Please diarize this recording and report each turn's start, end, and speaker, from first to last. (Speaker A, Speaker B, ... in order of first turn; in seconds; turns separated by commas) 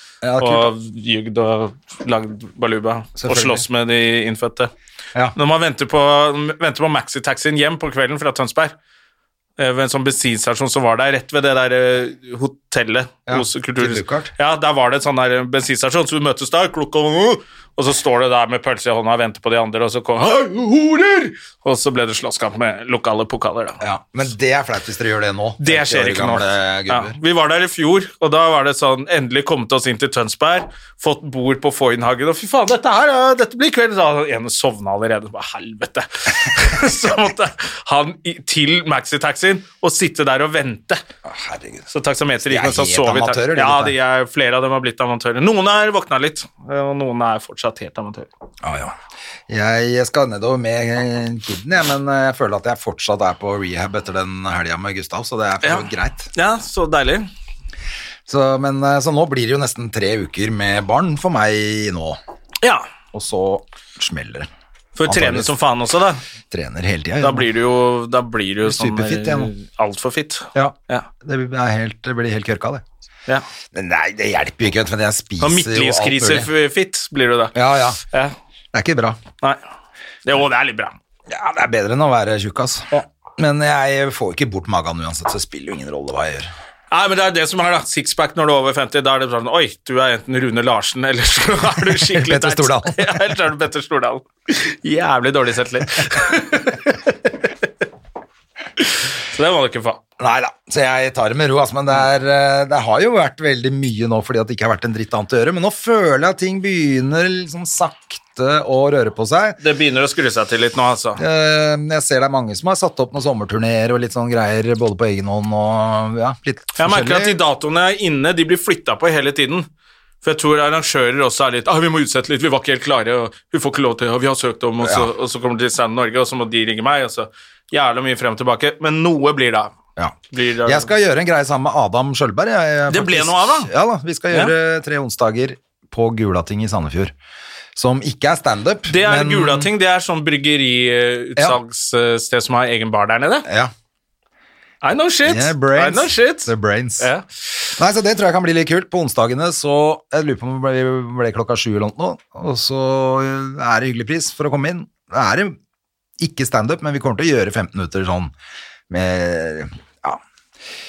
Speaker A: 0.2-0.7, Speaker B: 0.4-4.7, Speaker A: 3.2-3.6, Speaker B: 5.3-8.7, Speaker B: 9.6-23.8, Speaker A: 13.3-14.3, Speaker A: 23.8-27.2, Speaker B: 25.6-41.0, Speaker A: 41.2-41.9, Speaker B: 41.9-48.3, Speaker A: 42.4-44.0, Speaker A: 48.6-49.0, Speaker A: 49.5-56.3, Speaker B: 55.6-57.3, Speaker A: 58.3-62.2, Speaker A: 63.1-64.5, Speaker B: 65.0-66.2, Speaker A: 65.0-65.5, Speaker A: 66.5-67.5, Speaker B: 67.2-71.1, Speaker A: 68.7-69.5, Speaker A: 70.5-72.8, Speaker A: 73.7-76.5, Speaker B: 75.4-77.5, Speaker A: 77.5-78.0, Speaker A: 78.7-79.2, Speaker B: 80.3-81.0, Speaker A: 81.3-86.5, Speaker B: 86.9-97.3, Speaker A: 91.9-93.3, Speaker B: 98.8-100.0, Speaker A: 100.2-109.6, Speaker B: 109.6-111.2, Speaker A: 111.2-117.4, Speaker B: 116.8-119.7, Speaker B: 120.2-129.7, Speaker A: 124.8-125.1, Speaker A: 130.0-137.1, Speaker B: 130.3-130.9, Speaker B: 132.9-133.7, Speaker A: 137.8-139.7, Speaker B: 138.9-143.5, Speaker A: 143.5-143.7, Speaker B: 144.8-147.2, Speaker A: 145.2-147.1, Speaker A: 147.8-155.6, Speaker A: 156.2-158.3, Speaker A: 158.9-160.2